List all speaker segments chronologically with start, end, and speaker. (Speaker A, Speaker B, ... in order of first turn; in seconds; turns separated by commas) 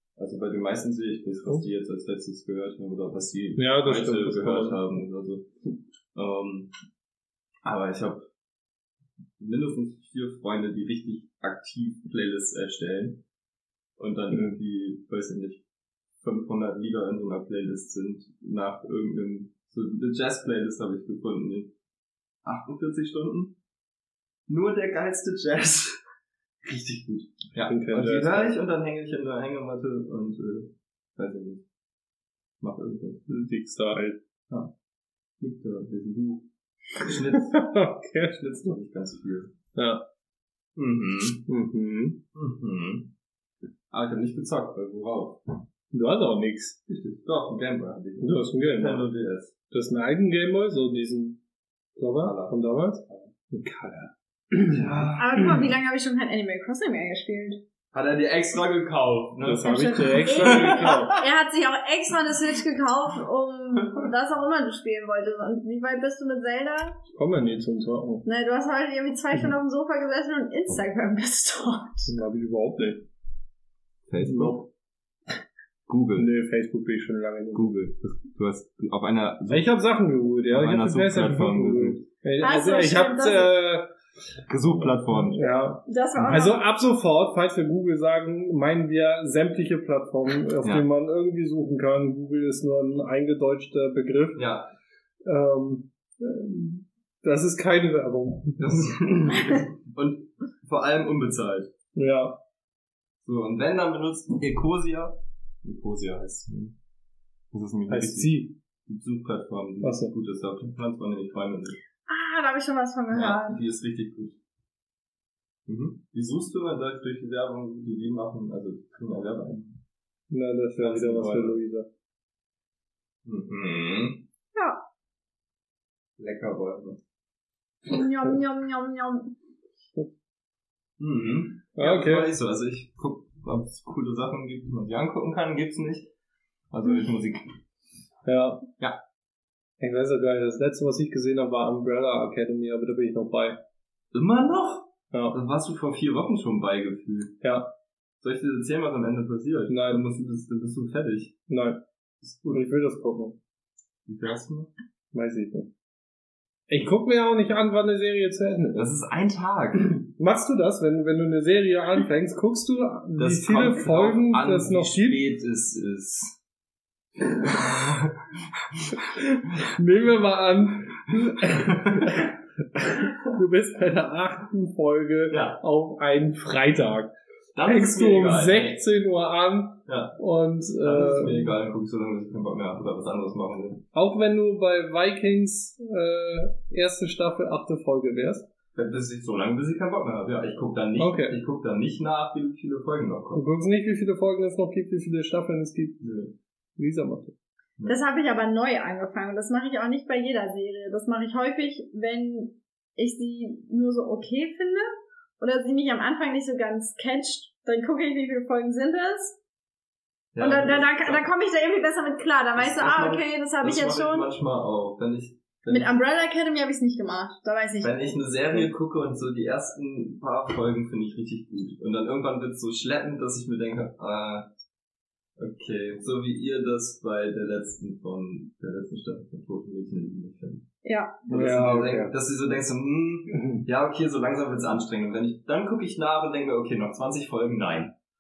Speaker A: 0.2-5.5, Speaker B: 3.6-4.8, Speaker A: 6.2-6.7, Speaker A: 7.6-8.2, Speaker A: 9.4-13.2, Speaker A: 14.0-15.6, Speaker A: 16.2-21.7, Speaker A: 22.4-23.6, Speaker A: 24.5-26.0, Speaker A: 26.6-31.6, Speaker B: 27.7-28.5, Speaker A: 32.6-33.2, Speaker B: 33.3-34.2, Speaker A: 35.4-39.5, Speaker B: 37.3-38.4, Speaker B: 39.8-40.0, Speaker A: 40.8-41.5, Speaker B: 41.5-42.2, Speaker A: 42.3-43.1, Speaker A: 43.9-45.4, Speaker B: 45.9-46.8, Speaker A: 46.9-49.5, Speaker B: 48.2-49.1, Speaker B: 49.7-51.4, Speaker B: 52.0-54.9, Speaker A: 52.2-53.3, Speaker A: 54.7-55.6, Speaker C: 55.2-57.6, Speaker A: 57.9-61.2, Speaker B: 59.4-61.2, Speaker C: 59.6-67.0, Speaker A: 63.8-64.0, Speaker B: 67.1-68.2, Speaker C: 68.2-72.2, Speaker B: 72.1-73.1, Speaker A: 74.1-74.7, Speaker B: 74.2-74.6, Speaker A: 75.9-76.3, Speaker B: 76.2-77.7, Speaker A: 77.5-79.7, Speaker B: 79.5-83.9, Speaker A: 80.5-82.0, Speaker C: 82.4-83.5, Speaker A: 84.5-85.4, Speaker B: 84.8-94.5, Speaker C: 85.9-86.6, Speaker A: 94.4-94.7, Speaker B: 95.2-98.6, Speaker A: 98.6-101.7, Speaker B: 102.0-102.4, Speaker A: 103.2-106.8, Speaker A: 107.5-111.8, Speaker B: 107.9-108.5, Speaker B: 109.8-110.1, Speaker C: 112.1-113.6, Speaker A: 113.1-114.4, Speaker A: 115.7-119.8, Speaker B: 120.3-121.9, Speaker A: 120.8-121.6, Speaker A: 123.2-124.2, Speaker C: 124.5-124.8, Speaker A: 126.2-127.0, Speaker C: 127.9-129.3, Speaker A: 131.0-136.1, Speaker B: 131.8-132.3, Speaker A: 136.7-137.4, Speaker B: 138.2-138.7, Speaker B: 139.8-143.6, Speaker A: 144.1-147.4, Speaker B: 145.1-145.4, Speaker B: 147.4-147.7, Speaker A: 148.2-151.3, Speaker B: 149.7-150.0, Speaker B: 151.5-151.8, Speaker A: 152.2-152.6, Speaker B: 152.5-153.4, Speaker A: 154.1-154.7, Speaker B: 155.1-155.7, Speaker B: 156.7-158.8, Speaker A: 158.7-160.0, Speaker B: 160.1-165.2, Speaker A: 163.2-166.4, Speaker A: 167.4-169.0, Speaker B: 169.7-177.1, Speaker A: 171.5-172.3, Speaker A: 175.3-175.6, Speaker A: 177.6-178.8, Speaker B: 177.7-181.6, Speaker A: 179.9-180.2, Speaker A: 180.8-183.8, Speaker B: 183.9-188.5, Speaker A: 188.8-193.5, Speaker B: 191.0-191.4, Speaker B: 193.3-196.0, Speaker A: 196.0-196.3, Speaker B: 196.8-197.3, Speaker C: 197.9-209.4, Speaker A: 210.3-211.3, Speaker C: 210.4-214.3, Speaker A: 212.6-215.9, Speaker C: 215.7-218.6, Speaker A: 217.8-224.5, Speaker A: 225.4-230.7, Speaker C: 230.8-231.2, Speaker A: 231.3-237.9, Speaker B: 231.3-232.1